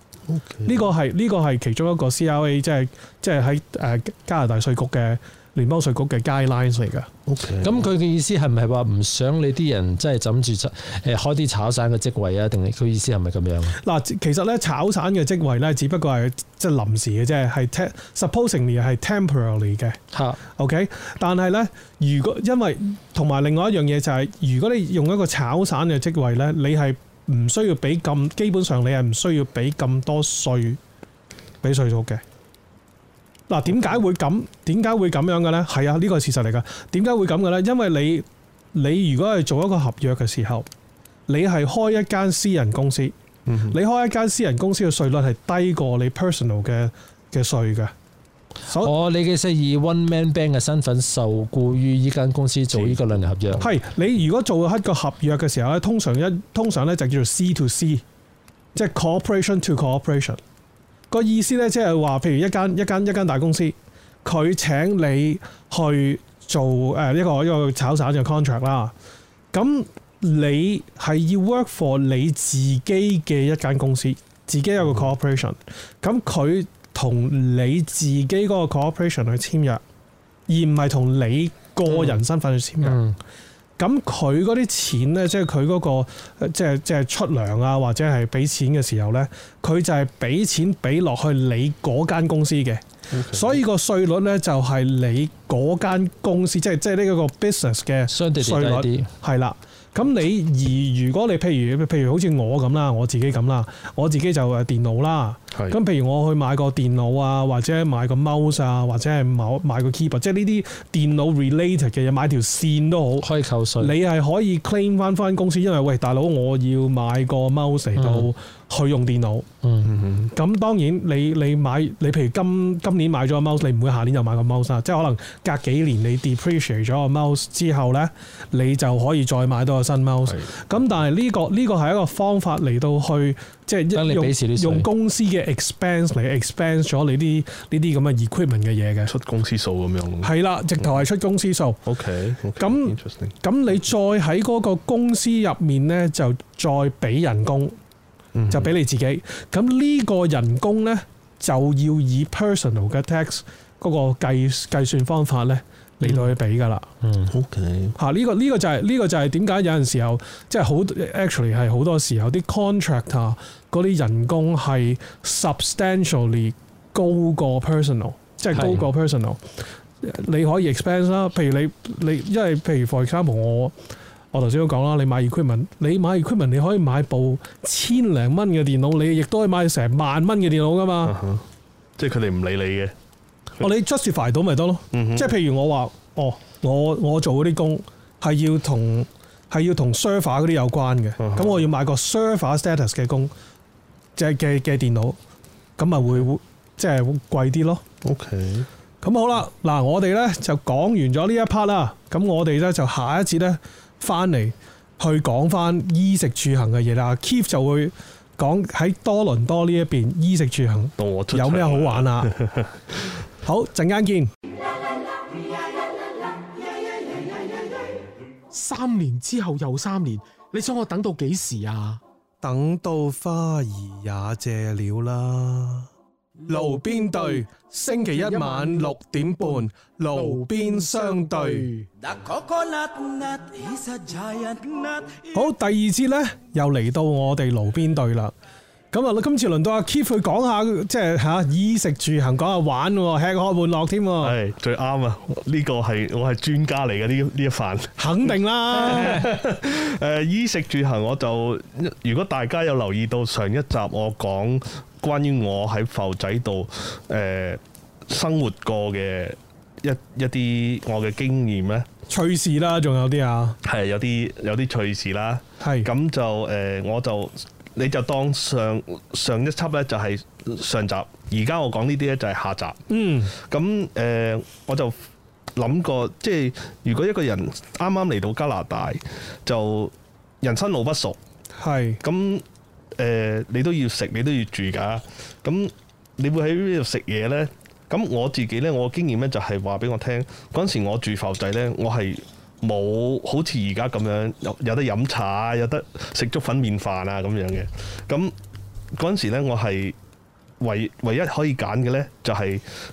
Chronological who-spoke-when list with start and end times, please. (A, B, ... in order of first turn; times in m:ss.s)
0:00.3-0:00.9 A
0:00.6-0:07.1 B
0:07.3-0:07.8 A
0:07.6-0:13.8 C
0:13.8-0:20.0 B
0:20.1-0:20.4 C
0:20.6-0:30.8 B
0:31.6-0:32.2 B
0:33.5-0:40.7 B
0:41.3-0:43.1 B
0:43.5-0:43.8 A
0:43.7-0:47.9 B
0:48.8-0:53.6 C
0:52.7-0:53.0 A
0:53.6-0:58.0 B
0:58.7-1:00.4 B
1:01.1-1:08.9 B
1:09.5-1:19.8 B
1:20.5-1:23.0 B
1:22.8-1:23.2 C
1:23.8-1:53.3 B
1:33.1-1:33.6 A
1:38.1-1:39.1 C
1:53.2-1:53.9 C
1:53.8-1:59.5 B
1:58.0-1:58.3 C
1:59.6-1:59.9 C
1:59.8-2:00.3 A
2:00.3-2:19.1 B
2:13.9-2:14.9 C
2:19.0-2:21.0 A
2:20.2-2:21.8 B
2:21.8-2:23.3 A
2:22.6-2:27.8 B
2:28.3-2:28.7 A
2:28.5-2:36.9 B
2:37.0-2:37.3 C
2:37.3-2:38.0 A
2:38.0-2:49.4 B
2:48.5-2:48.9 C
2:50.0-2:53.7 B
2:54.3-3:01.2 B
3:01.0-3:01.4 A
3:02.0-3:02.9 A
3:03.6-3:13.3 B
3:04.9-3:05.3 A
3:11.2-3:11.6 A
3:14.2-3:15.2 B
3:15.8-3:17.8 B
3:18.0-3:18.7 A
3:19.0-3:32.3 B
3:31.0-3:32.7 A
3:33.4-3:34.3 B
3:38.5-3:42.0 D
3:42.4-3:45.9 B
3:46.4-3:51.9 D
3:46.5-3:51.7 B
3:52.0-3:55.5 E
3:55.3-3:58.3 B
3:58.9-4:04.4 B
4:04.2-4:07.9 A
4:08.0-4:09.3 B
4:08.7-4:21.9 A
4:22.1-4:23.6 B
4:23.6-4:32.8 A
4:25.6-4:25.9 B
4:32.9-4:33.3 B
4:33.4-4:34.9 A
4:35.5-4:41.2 A
4:41.6-4:42.0 B
4:42.0-4:42.4 A
4:43.0-4:58.3 A
4:58.9-5:00.0 A
5:00.6-5:02.6 A